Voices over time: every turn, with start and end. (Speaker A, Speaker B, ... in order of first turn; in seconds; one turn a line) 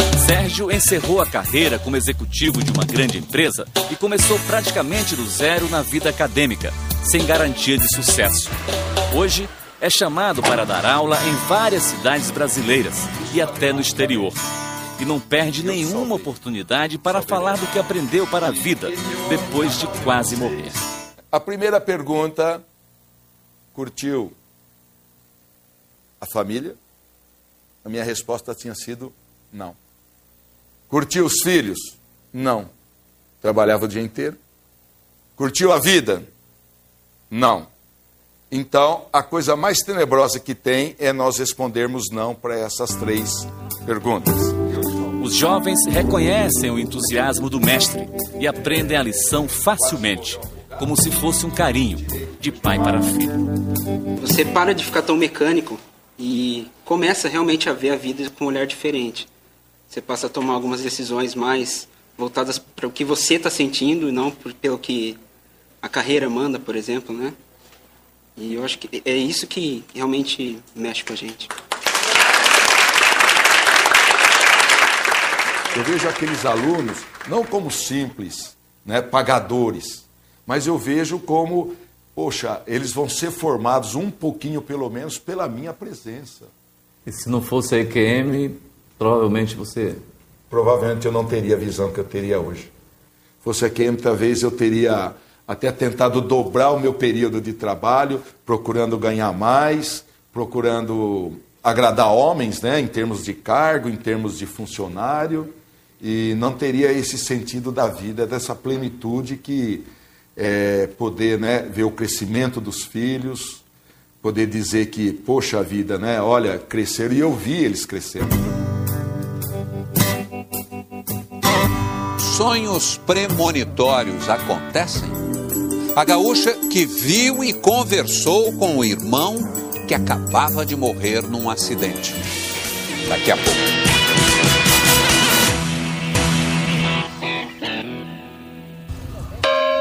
Speaker A: 0.2-8.6
Speaker A: 9.1-14.4
Speaker A: 15.0-20.8
Speaker B: 15.6-16.2
Speaker B: 21.3-22.6
Speaker B: 23.7-24.3
Speaker B: 26.2-26.8
Speaker B: 27.8-29.7
Speaker B: 30.9-32.7
Speaker B: 33.4-34.4
Speaker B: 35.4-36.3
Speaker B: 37.3-37.7
Speaker B: 38.5-44.8
Speaker A: 45.2-53.4
Speaker C: 54.2-59.3
Speaker C: 59.9-65.2
Speaker C: 65.8-67.3
Speaker C: 68.4-71.5
Speaker B: 75.7-86.5
Speaker D: 87.0-90.0
Speaker B: 90.5-92.7
Speaker B: 93.4-113.6
Speaker B: 114.2-118.4
Speaker E: 122.2-125.2
Speaker E: 125.9-132.2
Speaker E: 133.0-133.7